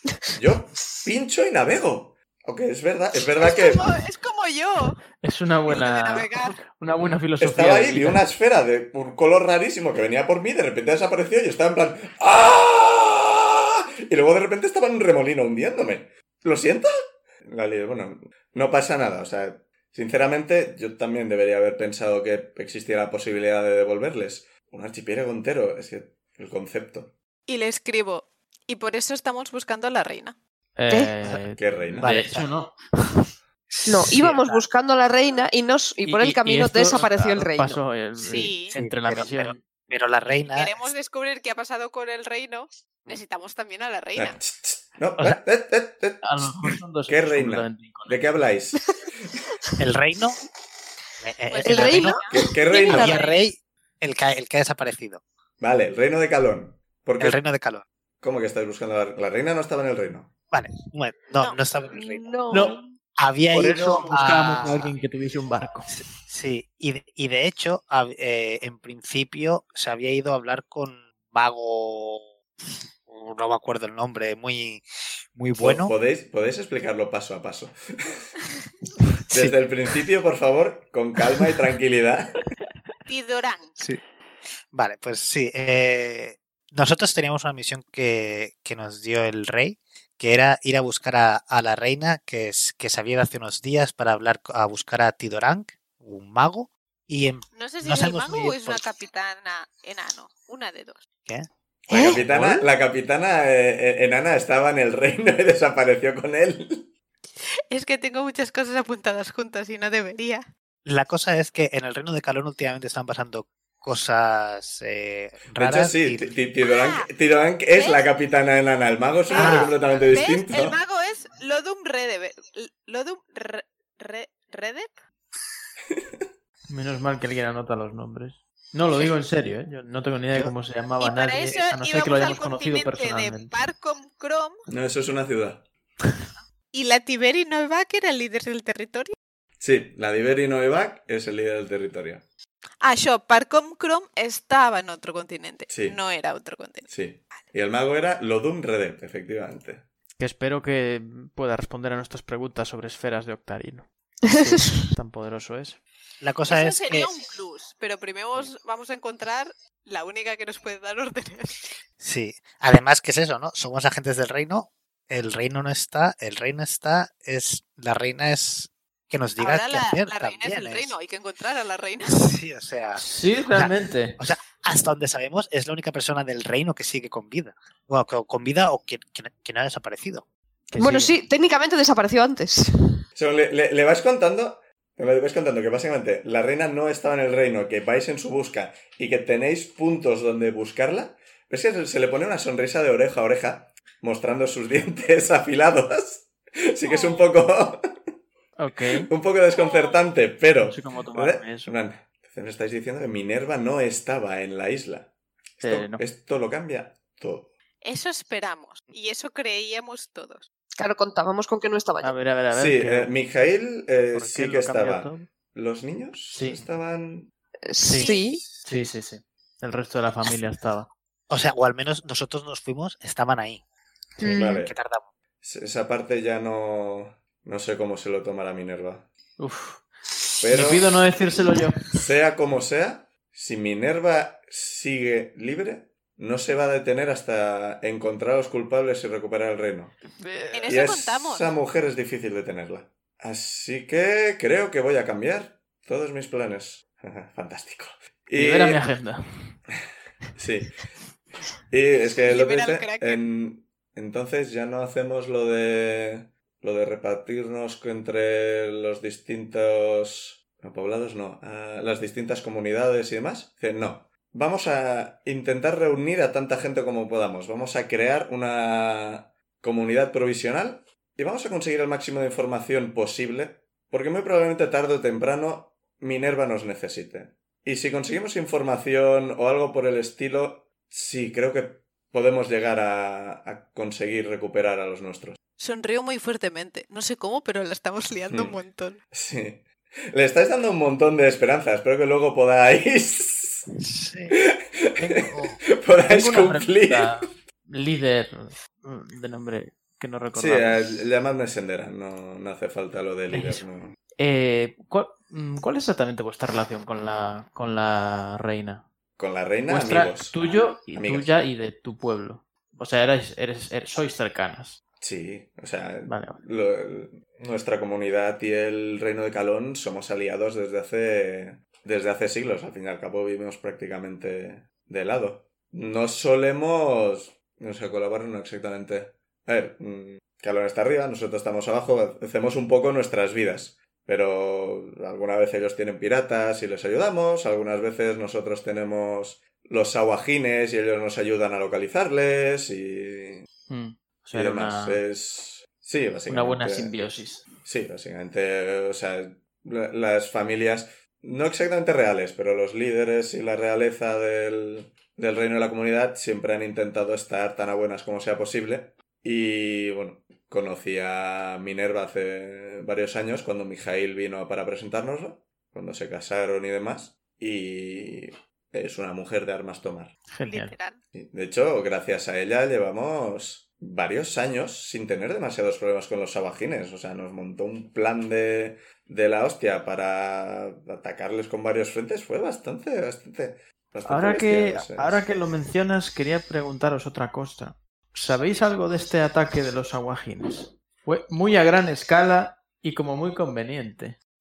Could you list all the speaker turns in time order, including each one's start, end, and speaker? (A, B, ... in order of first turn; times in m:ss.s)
0:00.3-0:04.0 A
0:03.4-0:05.0 B
0:05.2-0:08.2 C
0:05.7-0:06.6 B
0:07.4-0:27.1 A
0:27.5-0:30.4 B
0:30.8-0:33.3 C
0:31.2-0:32.5 D
0:31.6-0:32.1 A
0:33.7-0:34.2 D
0:33.8-0:37.8 E
0:34.0-0:34.6 C
0:36.0-0:39.6 C
0:38.2-0:38.7 B
0:38.3-0:40.8 D
0:40.5-0:44.4 B
0:44.2-0:49.1 A
0:46.2-0:48.3 C
0:49.8-0:50.4 D
0:51.2-0:52.2 D
0:51.5-0:53.4 B
0:51.6-0:53.2 E
0:52.3-0:53.2 A
0:52.9-0:55.2 D
0:55.6-0:57.4 A
0:57.2-0:57.8 D
0:58.2-1:00.3 A
1:00.5-1:02.5 D
1:01.9-1:02.9 E
1:02.5-1:02.8 C
1:03.2-1:04.9 D
1:03.5-1:06.0 C
1:05.9-1:12.3 D
1:13.0-1:15.9 D
1:15.6-1:18.3 A
1:19.3-1:22.5 A
1:23.1-1:23.8 B
1:24.7-1:38.8 D
1:37.5-1:41.0 B
1:41.9-1:46.9 A
1:41.9-1:42.2 E
1:42.1-1:42.7 D
1:47.7-1:50.4 B
1:50.8-1:56.4 D
1:55.6-2:00.8 A
1:56.6-1:57.1 B
1:57.7-1:58.1 B
1:59.3-2:05.0 B
1:59.3-1:59.8 D
2:06.7-2:13.6 C
2:11.0-2:14.6 B
2:14.7-2:15.6 A
2:16.7-2:19.2 B
2:19.6-2:22.2 A
2:22.8-2:26.9 B
2:25.7-2:26.0 A
2:26.9-2:29.8 A
2:30.2-2:35.8 C
2:34.3-2:34.7 E
2:36.2-2:37.1 D
2:36.5-2:41.7 B
2:42.0-2:51.0 D
2:49.4-2:52.2 B
2:52.1-3:00.3 D
2:53.0-2:54.2 C
3:00.7-3:01.2 C
3:00.8-3:02.7 E
3:03.1-3:17.8 A
3:16.8-3:17.4 B
3:18.6-3:19.1 C
3:18.8-3:27.5 A
3:19.5-3:20.1 B
3:20.6-3:21.7 C
3:25.6-3:26.0 C
3:27.8-3:30.5 B
3:30.8-3:32.1 E
3:32.0-3:33.1 C
3:32.5-3:37.3 A
3:34.1-3:35.3 C
3:36.3-3:36.7 C
3:37.6-3:38.4 E
3:37.8-3:40.9 C
3:37.9-3:38.2 B
3:41.3-3:43.6 D
3:44.2-3:44.6 E
3:44.2-3:44.7 A
3:44.3-3:45.1 D
3:45.4-3:49.1 A
3:49.4-3:49.9 C
3:50.4-3:51.1 A
3:50.4-3:51.9 C
3:51.9-4:00.0 A
4:00.1-4:00.7 C
4:00.5-4:01.5 B
4:00.7-4:08.8 A
4:08.3-4:09.6 C
4:10.4-4:10.8 A
4:11.7-4:45.4 A
4:12.2-4:13.2 B
4:45.6-4:49.0 B
4:48.3-4:48.6 A
4:49.1-4:53.7 A
4:53.9-4:54.4 D
4:54.3-4:57.3 A
4:55.0-4:55.6 D
4:56.0-5:00.8 C
5:00.3-5:03.9 A
5:03.3-5:03.6 C
5:04.2-5:08.9 C
5:09.2-5:10.4 A
5:09.7-5:14.8 C
5:10.9-5:11.4 A
5:15.0-5:43.5 A
5:16.0-5:16.4 C
5:43.7-5:45.0 C
5:44.3-5:47.0 A
5:46.3-5:47.5 C
5:47.6-6:10.1 A
6:10.3-6:10.8 C
6:10.5-6:11.0 B
6:11.1-6:25.2 A
6:24.0-6:34.2 C